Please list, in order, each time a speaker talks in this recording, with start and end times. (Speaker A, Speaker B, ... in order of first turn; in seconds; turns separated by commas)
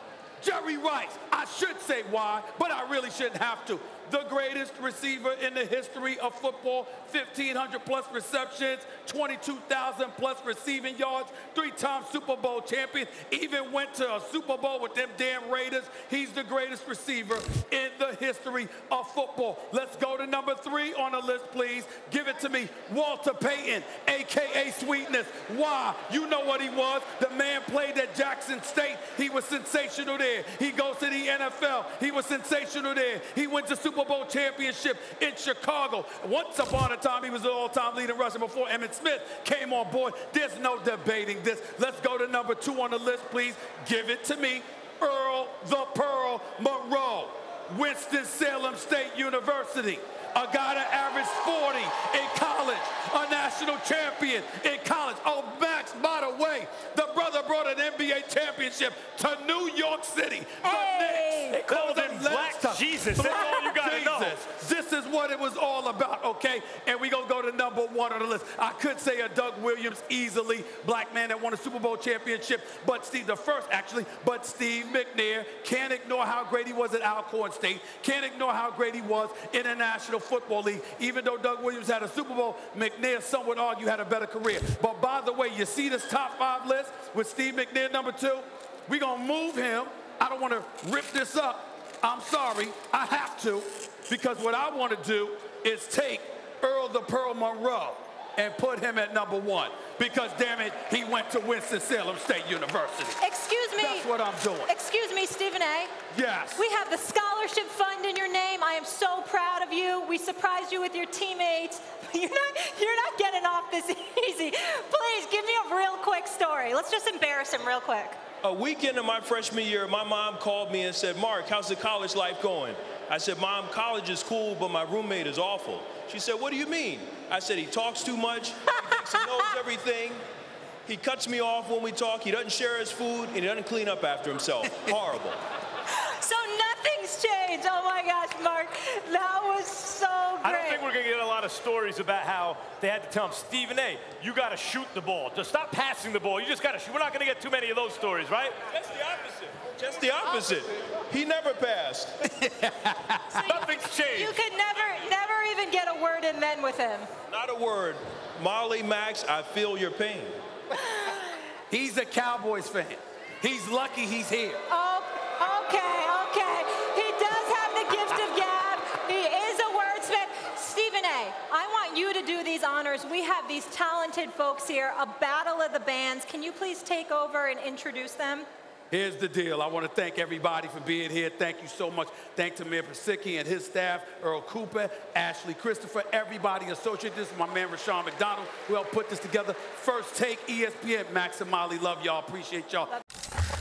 Speaker A: 0.4-103.2, Speaker B: 60.6-61.6, Speaker C: 61.6-64.4, Speaker B: 63.2-63.6, Speaker B: 103.2-104.1, Speaker A: 103.8-104.7, Speaker B: 104.7-105.9, Speaker A: 106.1-106.6, Speaker B: 106.6-118.2, Speaker D: 118.4-130.2, Speaker B: 128.9-129.5, Speaker D: 130.8-135.4, Speaker B: 135.9-140.8, Speaker C: 140.4-148.6, Speaker D: 148.7-152.2, Speaker A: 152.2-153.4, Speaker C: 153.4-154.4, Speaker B: 154.1-157.1, Speaker D: 157.3-160.4, Speaker B: 160.7-161.2, Speaker A: 161.7-164.6, Speaker B: 164.7-178.5, Speaker A: 178.9-192.9